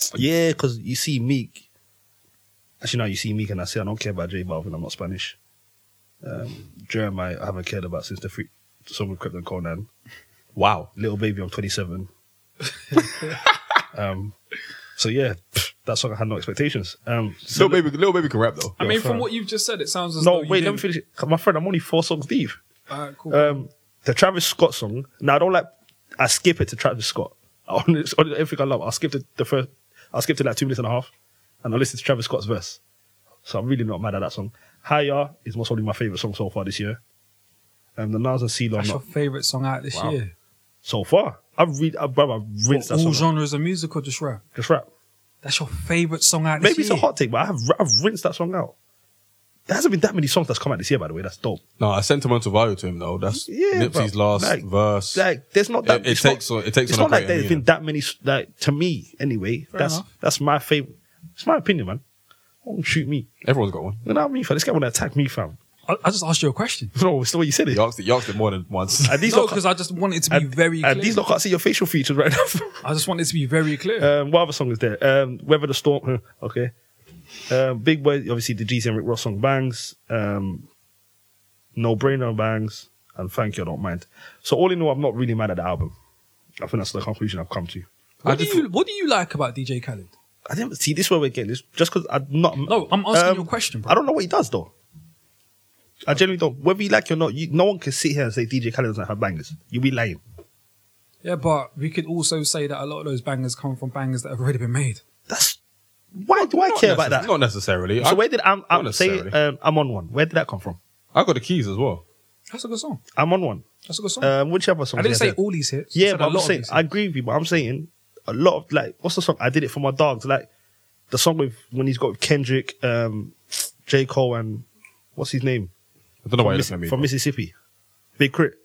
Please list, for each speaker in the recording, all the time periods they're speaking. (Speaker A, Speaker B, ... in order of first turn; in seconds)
Speaker A: 0.1-1.6, 2.8-5.4, 6.2-9.9, 10.9-12.1, 13.9-14.3, 15.0-17.8, 18.8-19.3, 20.2-22.6, 23.3-31.1, 31.6-32.8, 33.4-37.0, 38.0-39.0, 40.8-43.3, 44.5-44.9, 46.6-48.7, 49.7-51.6, 53.4-62.0, 62.6-63.3, 64.0-65.6, 66.9-67.8, 69.0-69.6, 70.3-72.8, 74.0-76.7, 77.5-80.7, 81.7-85.9, 86.6-87.9, 90.5-94.7, 96.0-100.2, 105.3-105.6, 106.1-107.3, 108.0-110.8, 113.1-113.6, 114.2-115.4, 115.9-120.5, 121.1-125.7, 126.4-127.5, 128.2-128.6
Speaker B: 10.6-10.9, 17.5-18.8, 51.8-55.2, 55.8-57.6, 63.4-64.0, 67.7-69.3, 88.2-88.6, 106.3-109.3, 111.1-112.0, 126.2-127.1
Speaker C: 18.8-20.8, 22.9-23.6, 38.8-40.3, 42.7-44.4, 45.4-47.1, 59.7-60.1, 65.9-66.9, 69.3-71.2, 72.8-74.1, 88.2-90.1, 92.7-94.0, 101.2-105.0, 112.5-113.0, 113.8-114.3, 115.0-116.8